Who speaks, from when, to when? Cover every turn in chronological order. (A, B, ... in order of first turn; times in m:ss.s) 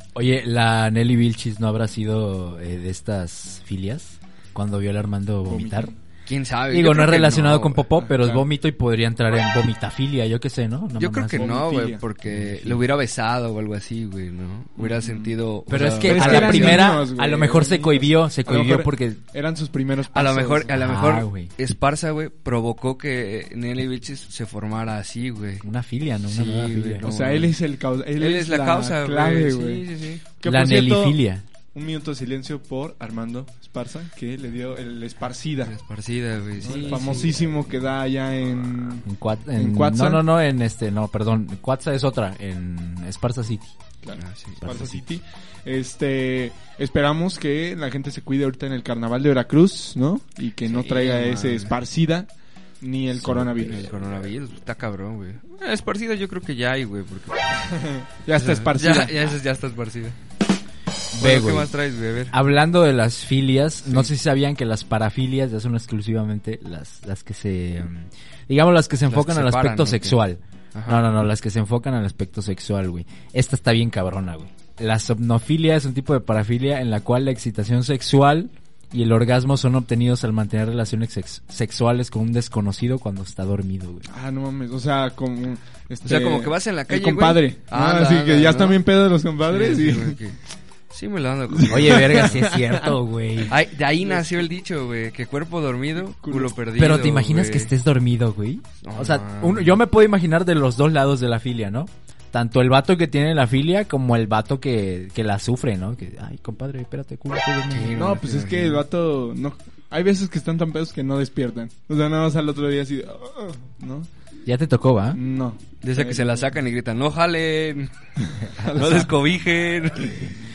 0:00.1-0:05.9 A
0:05.4-0:06.0 B
0:06.2-0:07.9 C
0:06.7-0:11.6 A
0:08.0-0:08.4 B
0:11.0-0:16.9 C
0:11.3-0:12.0 B
0:12.3-0:12.8 A
0:14.8-0:15.3 B
0:15.7-0:19.2 A
0:16.0-0:20.7 B
0:20.1-0:25.6 C
0:20.7-0:21.5 A
0:25.6-0:27.0 A
0:26.3-0:27.5 C
0:27.0-0:29.8 B
0:28.2-0:30.2 C
0:30.4-0:31.2 B
0:30.4-0:31.4 A
0:31.7-0:35.7 B
0:35.7-0:37.4 C
0:36.6-0:40.2 B
0:39.0-0:43.7 A
0:44.0-0:52.3 B
0:44.2-0:44.6 C
0:44.6-0:45.0 A
0:50.7-0:51.7 C
0:52.8-0:54.1 B
0:53.2-0:53.5 A
0:53.5-0:57.8 C
0:57.7-0:59.2 B
0:58.4-1:00.2 C
1:01.1-1:01.7 A
1:01.2-1:02.3 C
1:02.3-1:24.1 A
1:09.1-1:10.2 C
1:10.7-1:11.0 C
1:24.1-1:30.2 B
1:26.0-1:28.8 C
1:29.5-1:30.4 C
1:30.9-1:32.6 C
1:31.5-1:32.6 B
1:31.7-1:33.5 A
1:33.5-1:37.7 C
1:34.0-1:34.5 B
1:36.2-1:36.5 B
1:36.8-1:48.0 A
1:38.8-1:39.8 C
1:47.7-1:48.8 C
1:47.9-1:54.1 B
1:54.4-1:55.2 A
1:55.1-1:56.5 B
1:55.8-1:57.9 C
1:58.6-1:59.1 B
1:58.6-1:58.9 A
1:58.6-2:00.3 C